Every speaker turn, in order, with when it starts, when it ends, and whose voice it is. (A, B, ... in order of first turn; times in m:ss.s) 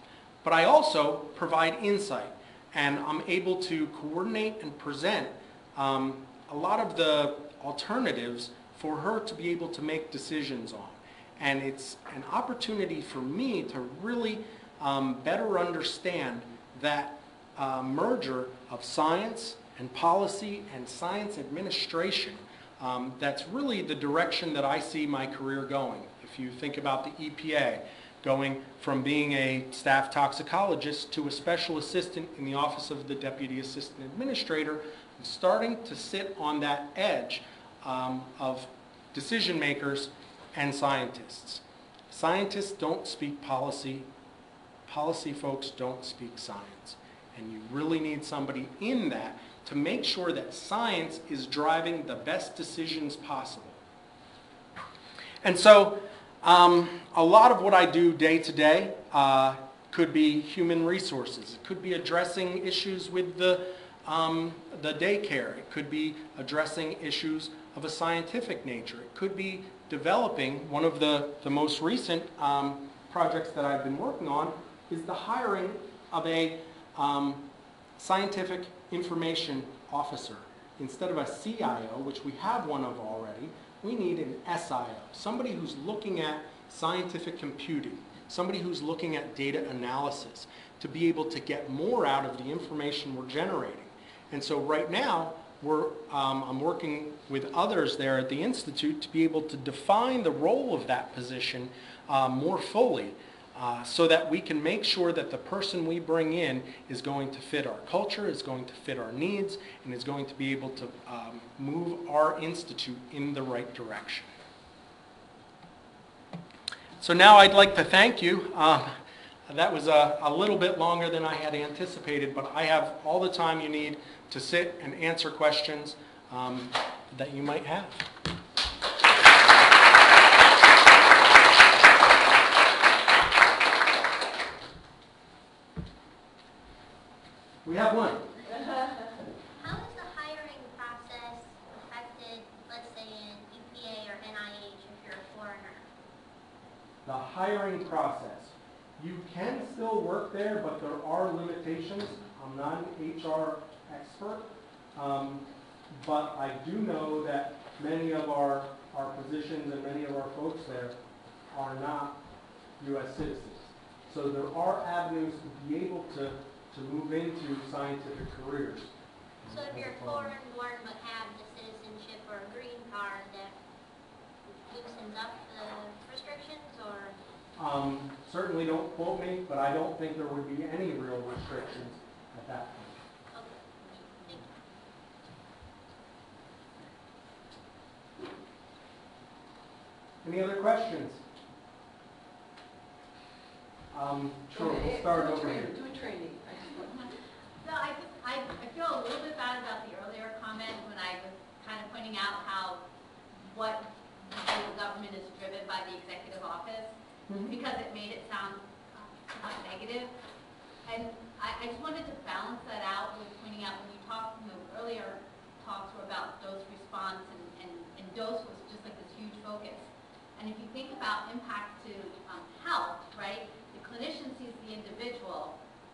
0:00.4-0:44.1 A
0:44.9-0:53.8 A
0:55.4-1:54.3 A
1:57.0-1:58.9 A
1:59.5-2:08.1 A
2:17.6-2:18.3 A
2:19.6-2:25.9 B
2:27.0-2:41.0 A
2:41.5-2:42.2 A
2:42.8-2:48.9 A
2:49.4-2:50.4 A
2:49.5-2:53.6 B
2:54.7-2:57.2 B
2:57.6-3:03.0 A
3:03.3-3:04.5 B
3:10.2-3:11.2 A
3:13.9-3:15.8 A
3:14.5-3:16.9 C
3:17.6-3:22.8 D
3:23.4-3:26.9 D
3:27.3-3:27.6 A
3:27.5-3:30.1 D
3:30.8-3:45.6 D